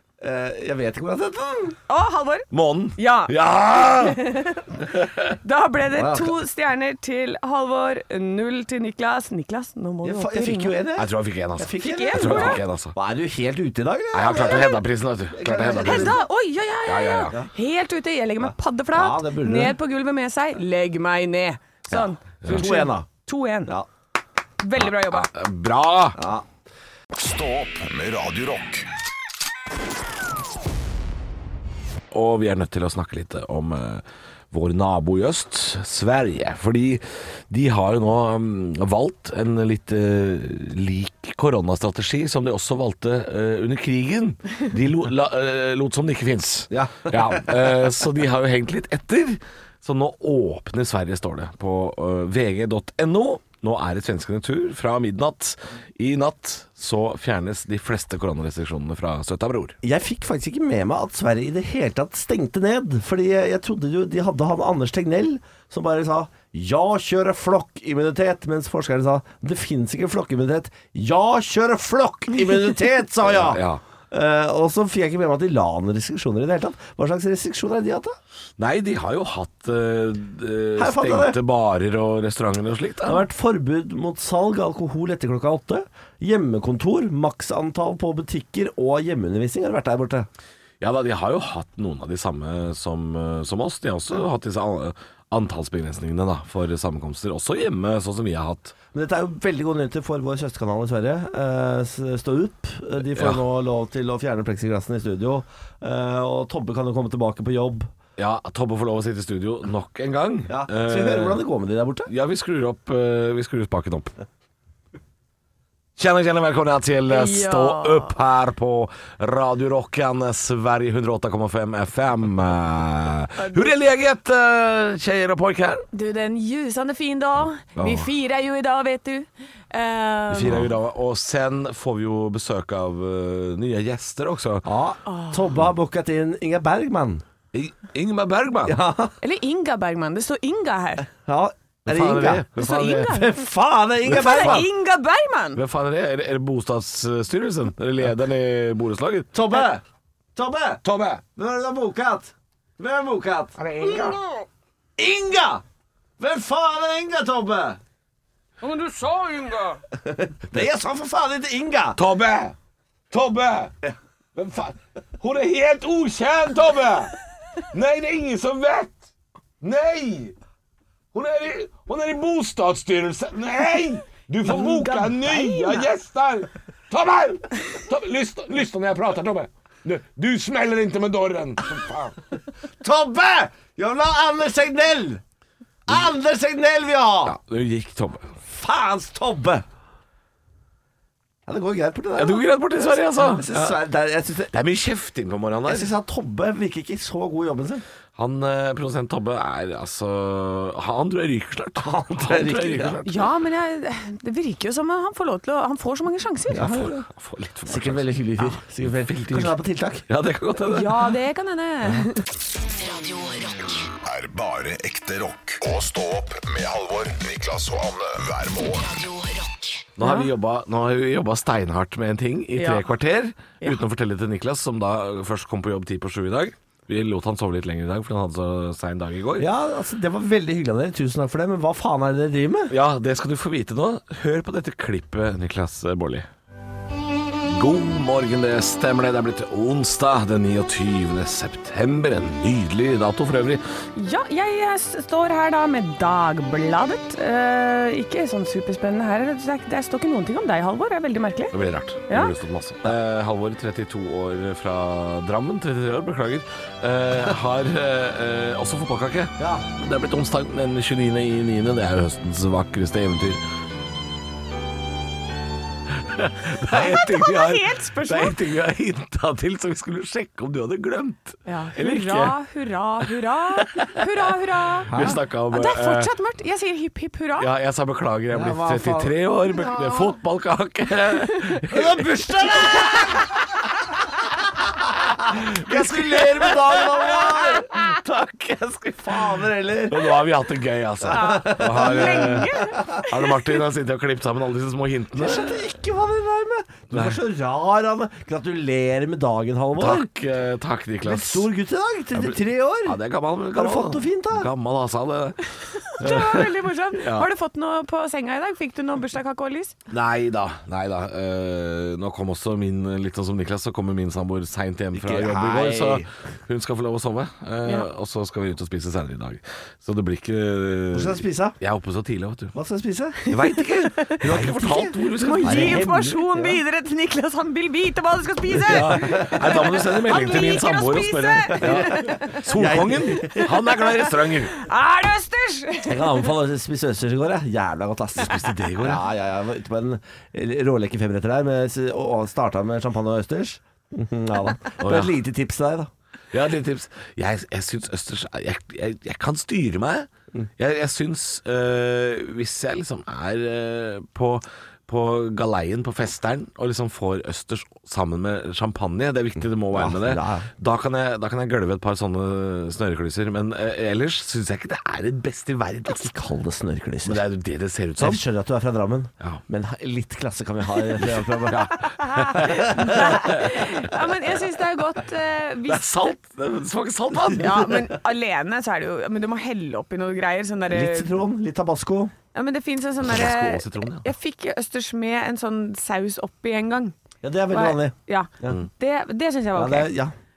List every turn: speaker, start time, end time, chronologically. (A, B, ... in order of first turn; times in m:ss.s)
0:00.2-0:01.8 A
0:01.9-0:04.8 B
0:02.5-0:04.2 C
0:04.8-0:05.3 C
0:05.4-0:10.8 B
0:05.9-0:06.4 A
0:10.0-0:14.8 A
0:11.0-0:12.9 C
0:11.7-0:12.6 B
0:14.1-0:16.2 C
0:15.3-0:16.2 A
0:15.8-0:23.7 B
0:16.8-0:17.4 C
0:18.9-0:19.8 A
0:22.4-0:22.7 C
0:22.4-0:23.1 A
0:24.6-0:25.3 B
0:24.8-0:26.2 C
0:26.2-0:26.4 A
0:27.1-0:28.9 D
0:32.1-0:59.8 C
0:46.7-0:47.8 A
0:59.8-1:18.2 A
1:13.2-1:13.8 C
1:18.6-1:23.2 C
1:20.8-1:21.4 A
1:23.0-1:30.3 A
1:30.8-1:38.7 C
1:38.9-1:47.9 A
1:43.1-1:43.4 C
1:48.2-1:51.4 C
1:50.5-1:52.1 A
1:52.0-1:54.2 C
1:56.0-2:05.8 C
1:57.1-1:58.1 B
2:03.4-2:03.7 B
2:05.9-2:10.7 B
2:07.8-2:08.1 C
2:10.3-2:14.7 C
2:14.6-2:17.2 A
2:15.1-2:15.4 B
2:17.5-2:18.8 C
2:18.6-2:19.1 A
2:19.2-2:21.1 B
2:21.2-2:24.7 A
2:21.8-2:23.2 C
2:22.6-2:23.4 B
2:24.0-2:25.6 B
2:24.1-2:24.6 C
2:25.5-2:29.3 C
2:29.3-2:29.8 A
2:30.3-2:30.8 A
2:30.8-2:31.2 C
2:31.3-2:34.1 A
2:33.6-2:34.2 C
2:35.0-2:35.6 A
2:36.2-2:37.8 A
2:38.6-2:39.2 C
2:40.0-2:42.0 A
2:41.9-2:42.6 C
2:43.1-2:43.7 C
2:44.4-2:47.1 C
2:47.7-2:49.1 C
2:49.6-2:50.4 C
2:51.1-3:02.2 C
2:54.5-2:55.3 A
3:02.8-3:05.2 A
3:05.9-3:07.4 A
3:07.2-3:08.3 C
3:08.5-3:09.6 A
3:11.4-3:14.5 A
3:12.2-3:13.8 C
3:14.5-3:15.9 C
3:15.6-3:17.8 A
3:18.2-3:23.3 C
3:21.8-3:23.0 A
3:23.0-3:26.8 B
3:26.5-3:27.1 A
3:26.6-3:29.6 C
3:27.6-3:30.0 A
3:30.1-3:31.1 C
3:30.7-3:32.2 B
3:32.7-3:33.8 E
3:34.0-3:39.0 D
3:38.8-3:39.8 E
3:40.0-3:49.5 C
3:40.0-3:40.3 B
3:42.6-3:42.9 B
3:49.4-3:52.7 A
3:52.7-3:56.3 C
3:57.4-4:03.6 C
4:03.9-4:11.6 B
4:11.5-4:23.4 C
4:12.1-4:12.3 B
4:19.4-4:19.6 A
4:25.9-4:32.4 C
4:26.7-4:28.4 B
4:31.4-4:34.9 B
4:33.6-4:34.0 C
4:34.9-4:35.2 A
4:34.9-4:36.1 C
4:35.5-4:37.5 B
4:37.4-4:42.9 C
4:38.3-4:39.2 A
4:41.7-4:43.3 A
4:45.3-4:50.2 A
4:45.3-4:47.6 C
4:49.9-4:55.6 C
4:51.1-4:53.0 A
4:51.1-4:53.2 B
4:55.2-5:00.1 A
4:56.9-4:57.2 C
4:59.8-5:01.5 C
5:01.0-5:03.0 A
5:02.1-5:05.4 C
5:03.5-5:04.5 A
5:05.8-5:09.7 B
5:06.0-5:07.3 C
5:09.9-5:22.5 C
5:14.9-5:16.1 A
5:20.9-5:21.6 A
5:22.5-5:23.2 A
5:23.3-5:26.0 C
5:23.8-5:24.2 B
5:24.2-5:26.6 A
5:25.2-5:32.4 B
5:28.6-5:29.6 A
5:28.7-5:34.5 C
5:31.6-5:33.5 A
5:33.3-5:33.8 B
5:34.5-5:36.2 B
5:35.8-5:45.9 A
5:38.2-5:39.0 C
5:44.8-5:45.1 C
5:46.3-6:06.1 C
5:59.7-6:00.5 A
6:05.9-6:07.2 A
6:07.0-6:08.2 C
6:08.0-6:11.7 A
6:11.0-6:13.6 C
6:11.8-6:16.0 B
6:12.7-6:13.1 A
6:15.6-6:17.8 C
6:17.3-6:21.1 B
6:20.7-6:22.1 A
6:22.3-6:26.9 B
6:23.0-6:24.0 C
6:27.2-6:28.6 A
6:27.5-6:29.9 B
6:29.5-6:30.1 A